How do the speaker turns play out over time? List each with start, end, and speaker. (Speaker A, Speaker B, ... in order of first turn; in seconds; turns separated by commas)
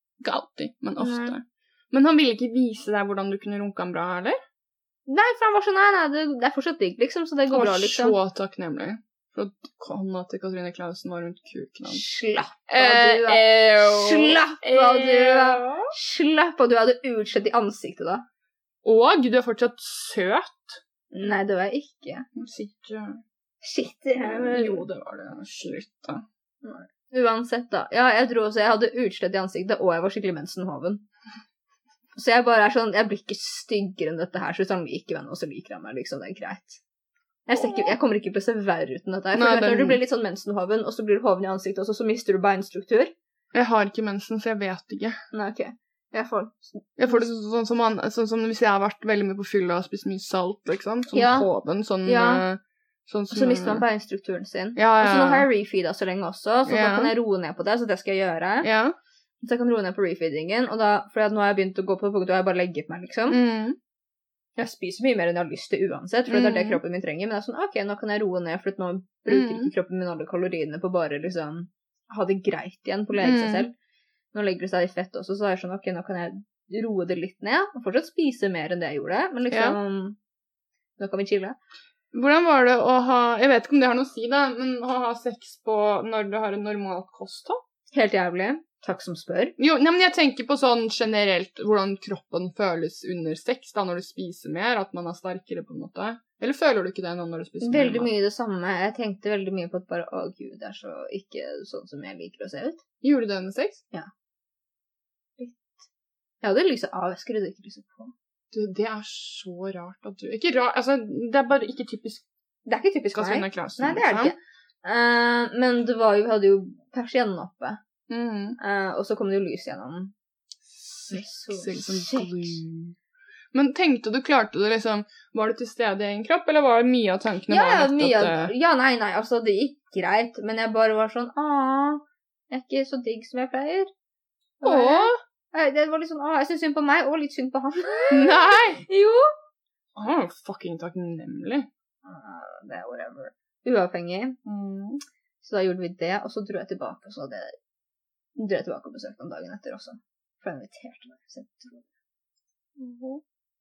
Speaker A: 0.2-4.4, Speaker B: 1.0-1.4, Speaker B: 5.1-8.2, Speaker A: 7.5-12.0, Speaker B: 11.9-18.2, Speaker A: 12.7-15.9, Speaker A: 18.8-20.8, Speaker B: 21.1-22.3, Speaker A: 22.4-23.2, Speaker B: 23.6-24.9, Speaker A: 24.2-26.2, Speaker B: 26.6-31.0, Speaker B: 32.1-36.8, Speaker B: 37.5-43.1, Speaker A: 37.5-37.9, Speaker A: 39.3-40.0, Speaker A: 43.5-45.2, Speaker B: 45.3-47.3, Speaker A: 47.0-53.8, Speaker B: 51.1-51.5, Speaker B: 52.0-52.4, Speaker B: 53.3-58.7, Speaker A: 54.8-55.5, Speaker A: 56.7-57.1, Speaker A: 58.6-59.0, Speaker B: 59.4-63.4, Speaker A: 63.3-63.8, Speaker B: 64.6-73.7, Speaker A: 66.3-66.8, Speaker A: 69.3-69.7, Speaker A: 73.2-73.7, Speaker B: 74.3-80.2, Speaker A: 79.5-79.8, Speaker B: 81.0-81.5, Speaker A: 82.1-87.6, Speaker B: 87.9-89.5, Speaker A: 89.6-98.1, Speaker B: 97.6-102.8, Speaker A: 103.0-103.8, Speaker B: 105.4-105.8, Speaker B: 106.4-108.1, Speaker A: 108.5-112.2, Speaker B: 112.7-117.8, Speaker A: 113.1-114.3, Speaker A: 118.1-118.6, Speaker B: 118.6-120.1, Speaker A: 120.6-123.0, Speaker B: 121.1-122.6, Speaker A: 123.5-128.5, Speaker B: 127.5-133.9, Speaker B: 134.6-139.3, Speaker A: 134.6-135.2, Speaker A: 138.1-138.8, Speaker A: 139.9-141.7, Speaker B: 142.0-144.4, Speaker A: 144.4-145.0, Speaker B: 145.4-147.5, Speaker B: 148.4-151.8, Speaker A: 152.8-153.2